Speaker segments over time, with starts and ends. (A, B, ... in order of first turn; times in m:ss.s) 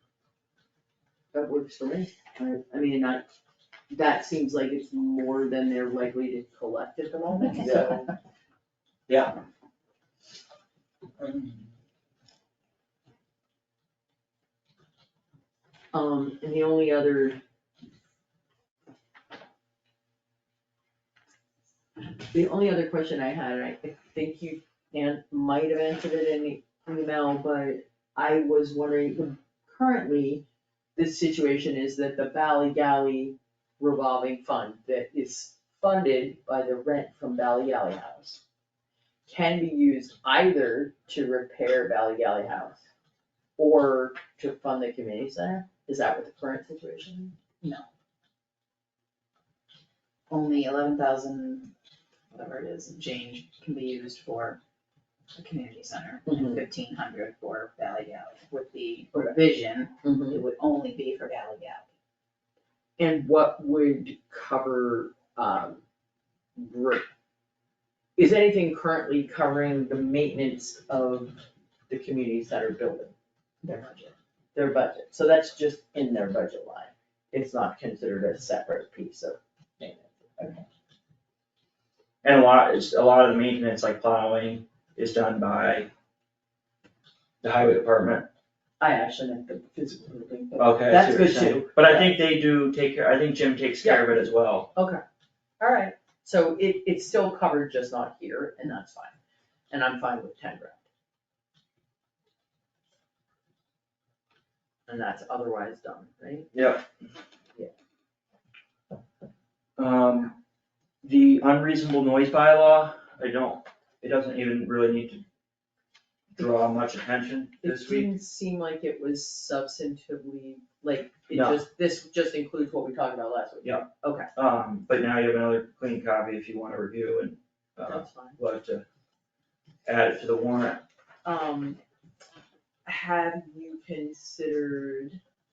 0:01.3-0:03.2 A
0:03.9-0:08.1 A
0:07.4-0:07.6 B
0:07.6-0:08.0 C
0:09.1-0:09.4 C
0:11.2-0:11.7 C
0:15.9-0:17.4 A
0:22.3-0:30.4 A
0:31.0-0:38.4 A
0:39.3-0:42.8 A
0:43.6-0:47.4 A
0:50.3-0:51.7 B
0:52.3-0:54.6 B
0:55.3-1:01.8 B
0:56.2-0:56.6 A
1:00.0-1:00.4 A
1:03.0-1:05.8 A
1:06.6-1:07.1 A
1:08.2-1:20.6 A
1:22.2-1:25.9 C
1:27.4-1:28.3 C
1:28.8-1:32.2 A
1:30.6-1:34.7 C
1:33.8-1:34.1 A
1:34.7-1:35.0 A
1:35.6-1:39.1 A
1:39.7-1:40.8 A
1:44.9-1:46.5 A
1:46.5-1:46.8 C
1:49.8-1:50.3 C
1:51.0-1:55.2 C
1:56.3-1:58.1 C
1:57.6-2:04.3 A
2:01.3-2:01.6 C
2:03.6-2:08.8 C
2:07.8-2:08.4 A
2:09.8-2:10.8 C
2:11.2-2:11.8 A
2:12.8-2:15.2 A